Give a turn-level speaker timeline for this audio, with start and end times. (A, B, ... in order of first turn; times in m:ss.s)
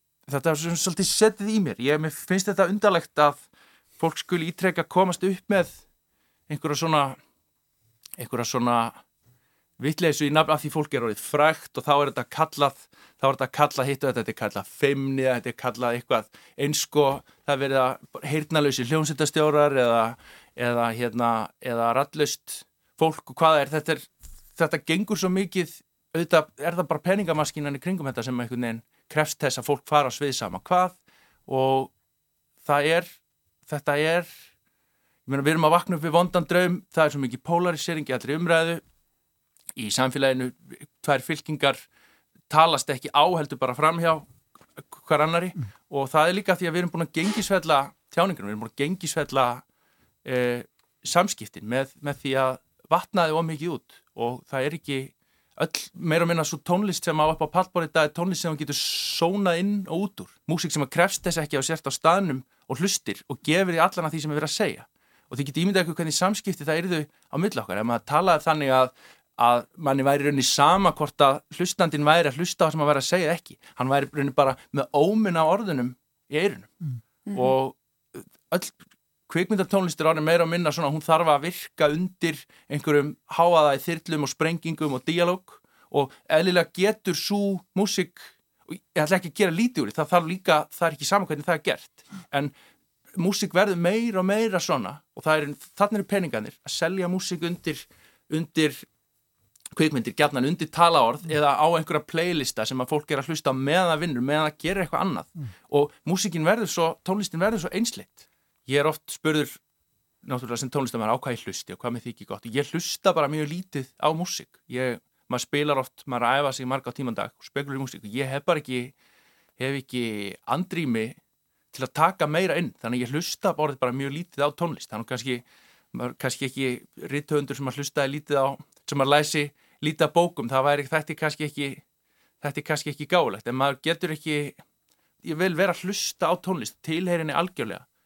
0:00.3-0:03.5 A
0:04.0-0:05.8 A
0:06.5-0:07.2 A
0:08.2-0:09.0 A
0:09.8-0:31.0 A
0:31.5-0:31.9 A
0:32.6-0:33.1 A
0:33.7-0:34.3 A
0:35.2-0:38.8 A
0:39.8-0:41.8 A
0:42.5-0:49.6 A
0:50.2-1:16.7 A
1:17.3-1:32.5 A
1:33.1-1:38.9 A
1:39.7-1:49.6 A
1:50.2-1:58.9 A
1:59.6-2:01.2 A
2:01.7-2:11.8 A
2:12.4-2:14.6 A
2:15.2-2:17.8 A